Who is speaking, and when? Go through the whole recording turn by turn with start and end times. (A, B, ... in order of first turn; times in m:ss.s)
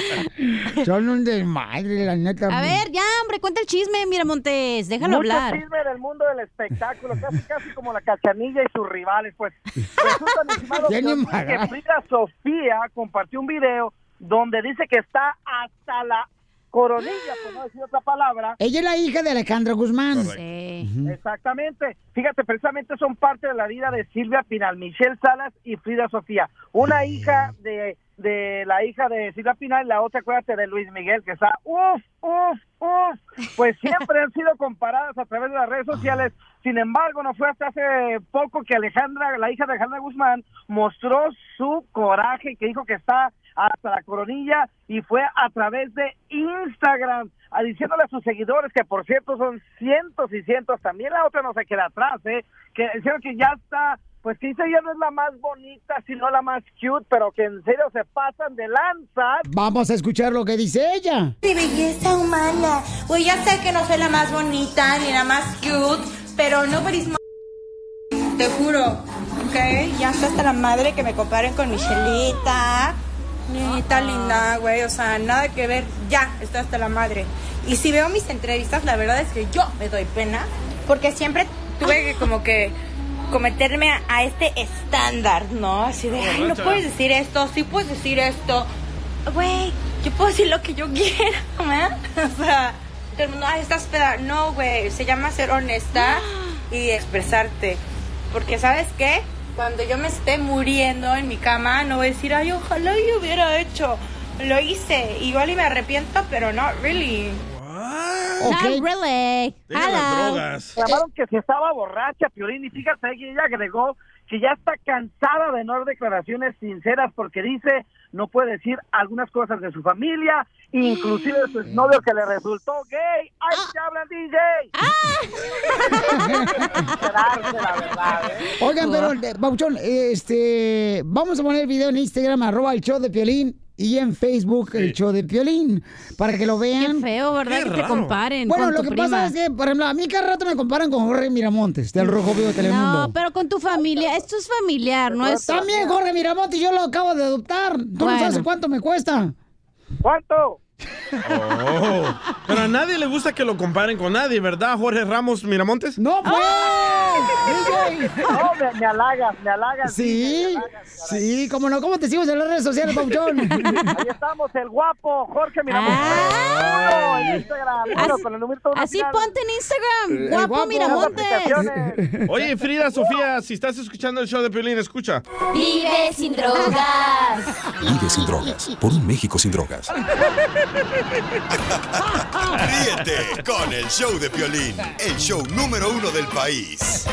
0:00.8-0:02.8 A
0:02.5-0:05.6 B
0:05.0-0:18.6 C
0:10.8-0:11.7 A
0:18.6-0:21.1 A
0:20.1-0:20.4 D
0:20.3-0:20.9 B
0:21.0-0:59.4 C
0:59.4-1:01.3 A
1:01.4-1:07.2 E
1:08.4-1:13.0 E
1:13.5-1:22.7 E
1:13.6-1:14.5 B
1:23.3-1:28.7 E
1:26.1-1:26.8 D
1:29.3-1:37.8 E
1:35.9-1:36.6 B
1:38.3-1:47.4 E
1:47.5-1:48.5 D
1:48.4-1:48.9 A
1:48.4-1:50.4 B
1:49.7-1:50.8 D
1:50.8-2:04.7 C
2:00.9-2:01.2 B
2:04.8-2:06.5 B
2:06.0-2:06.8 A
2:06.9-2:08.4 C
2:08.6-2:17.1 A
2:08.7-2:09.1 B
2:16.8-2:19.3 B
2:17.4-2:18.2 D
2:18.4-2:23.1 A
2:22.6-2:25.9 B
2:23.8-2:24.2 C
2:25.1-2:25.6 C
2:25.4-2:29.3 A
2:28.0-2:28.4 B
2:30.0-2:30.6 C
2:31.2-2:36.0 D
2:36.0-2:38.3 A
2:36.2-2:38.4 B
2:38.3-2:41.3 C
2:39.8-2:43.8 A
2:43.4-2:43.9 B
2:44.0-2:49.3 C
2:45.7-2:46.8 B
2:45.9-2:47.4 D
2:47.9-2:51.6 B
2:50.2-2:52.1 A
2:50.8-2:52.0 C
2:52.3-2:55.2 D
2:55.5-2:57.5 B
2:57.8-2:59.9 F
3:02.4-3:07.0 G